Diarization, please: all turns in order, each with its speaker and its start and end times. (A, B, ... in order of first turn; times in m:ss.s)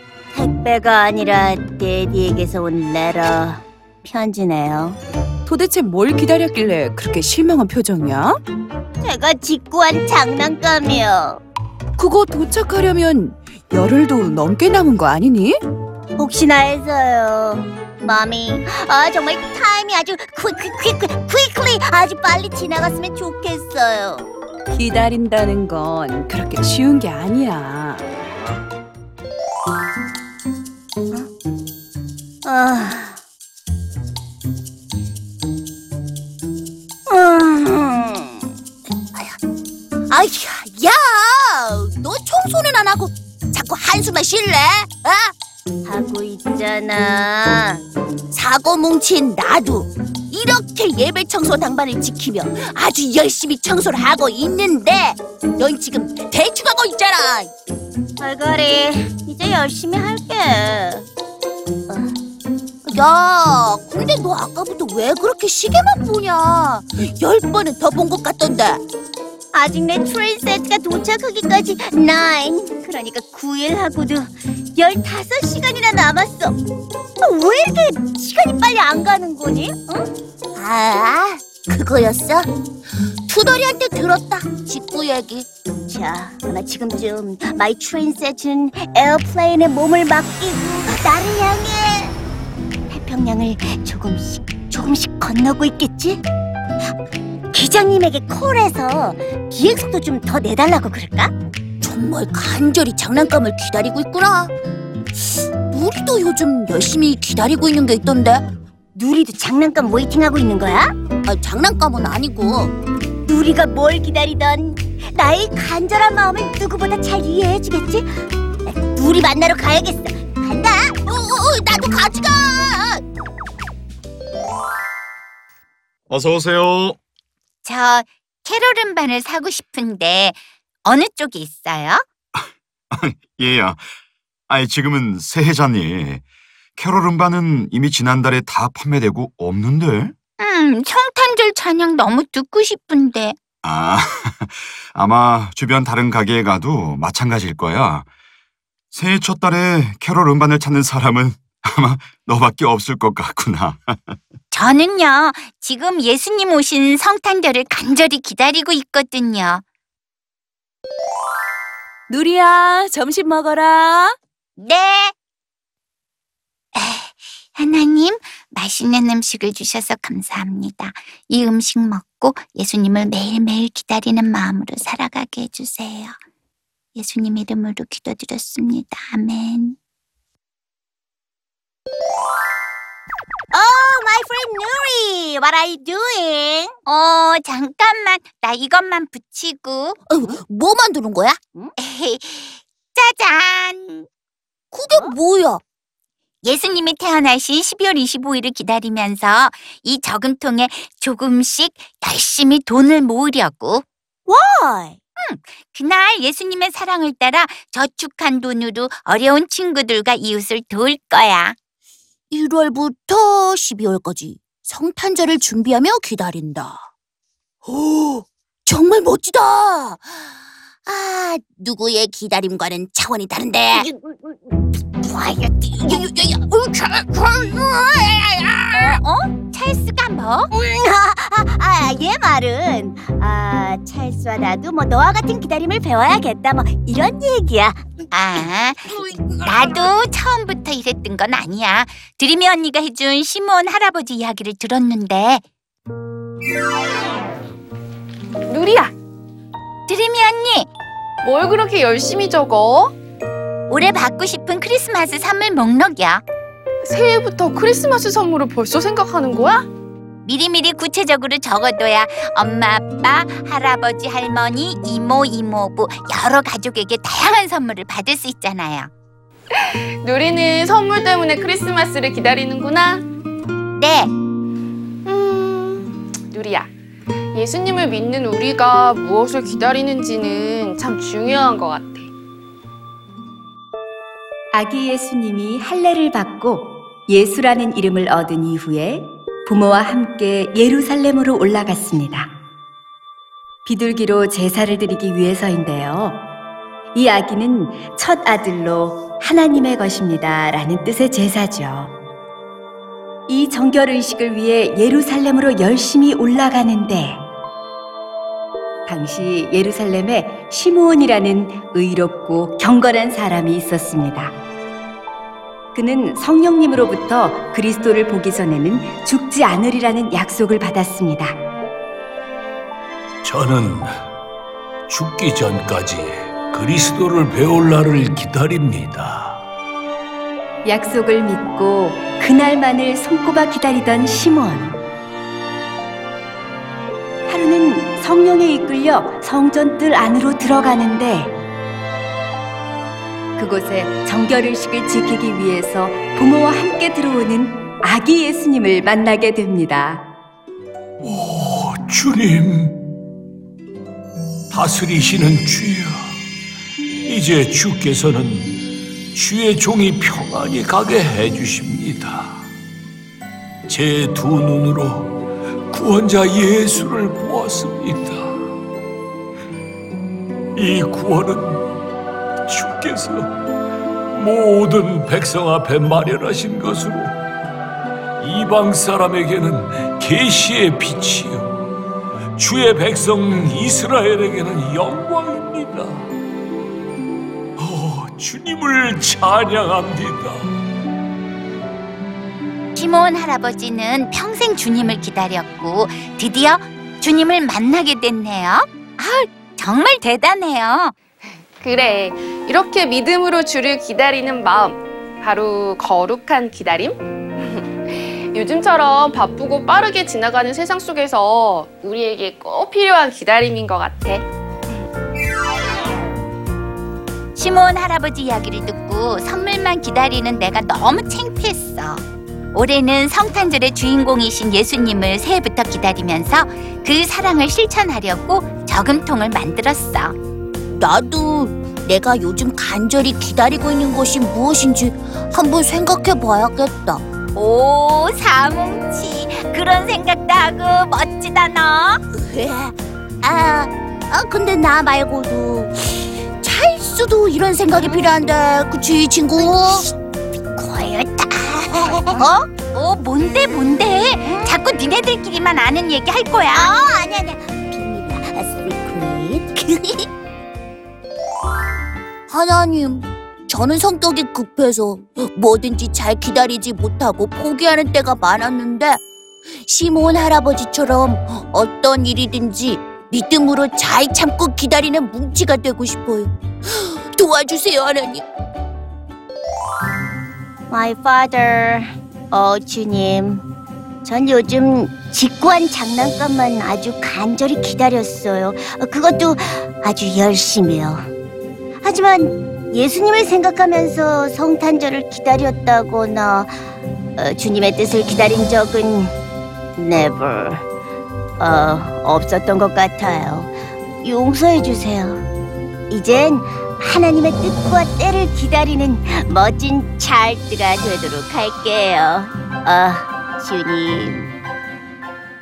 0:00.3-0:05.0 A
0:05.4-0:08.4 B
0:09.0-0:11.4 A
0:12.0-0:15.6 B
0:16.2-0:24.3 A
0:24.7-0:28.1 B
0:32.4-0:33.2 A
0:37.1-0:38.5 A
0:40.1-0:45.3 C
0:45.8-0:47.8 A
0:48.3-0:57.5 C
0:58.2-1:01.1 A
1:01.9-1:02.1 A
1:02.8-1:08.8 C
1:09.5-1:16.6 A
1:17.2-1:22.4 A
1:23.3-1:25.4 C
1:25.9-1:32.1 A
1:32.9-1:36.2 A
1:37.5-1:41.3 A
1:41.8-1:44.5 C
1:45.7-1:48.4 C
1:48.9-1:50.9 A
1:51.2-1:52.7 C
1:53.3-1:58.1 A
1:58.7-2:01.0 A
2:01.1-2:02.8 C
2:06.1-2:07.0 D
2:07.6-2:12.0 E
2:12.9-2:13.8 D
2:14.5-2:16.2 D
2:16.8-2:20.1 D
2:20.4-2:23.4 E
2:23.6-2:28.0 D
2:28.9-2:34.2 D
2:34.5-2:39.6 E
2:42.1-2:44.2 B
2:44.6-2:45.1 E
2:46.7-2:56.1 E
2:56.9-2:59.8 E
3:03.5-3:06.7 A
3:06.8-3:10.0 E
3:10.1-3:11.4 C
3:11.8-3:14.1 E
3:14.7-3:15.6 C
3:16.4-3:23.8 E
3:24.2-3:25.0 A
3:25.2-3:31.6 E
3:32.3-3:36.8 C
3:37.6-3:40.2 C
3:40.8-3:43.8 C
3:43.7-3:44.4 A
3:45.0-3:48.8 C
3:48.7-3:50.5 E
3:50.5-3:57.8 A
3:58.1-4:05.4 E
4:08.5-4:08.9 F
4:09.9-4:10.7 E
4:11.2-4:12.9 F
4:13.7-4:16.2 E
4:16.8-4:19.6 F
4:20.2-4:28.9 E
4:29.6-4:33.0 F
4:33.7-4:34.1 E
4:35.0-4:36.7 F
4:37.3-4:42.1 F
4:44.5-4:52.3 G
4:53.6-4:56.2 G
4:56.9-5:02.0 G
5:03.3-5:07.2 G
5:08.8-5:14.3 G
5:15.7-5:21.3 G
5:23.2-5:23.9 H
5:24.9-5:29.4 H
5:30.6-5:34.8 G
5:37.3-5:41.3 G
5:43.4-5:50.0 G
5:51.0-5:52.8 H
5:54.5-5:56.2 H
5:57.0-5:58.6 H
5:59.1-6:02.4 H
6:03.7-6:05.2 H
6:05.7-6:08.4 H
6:10.6-6:11.7 H
6:12.5-6:13.3 H
6:14.1-6:17.2 H
6:18.2-6:21.6 H
6:22.4-6:26.1 H
6:27.6-6:30.5 H
6:32.7-6:40.9 E
6:41.6-6:54.2 F
6:57.4-7:10.1 E
7:10.7-7:17.0 C
7:17.3-7:22.0 E
7:22.2-7:29.7 C
7:29.4-7:29.8 A
7:30.6-7:32.3 A
7:32.1-7:36.8 E
7:34.2-7:34.6 A
7:36.5-7:40.1 A
7:42.3-7:49.0 C
7:49.6-7:58.2 C
8:00.7-8:03.4 A
8:04.0-8:11.0 A
8:11.8-8:16.5 A
8:17.2-8:19.1 A
8:19.8-8:20.6 A
8:21.4-8:25.2 A
8:25.9-8:34.3 A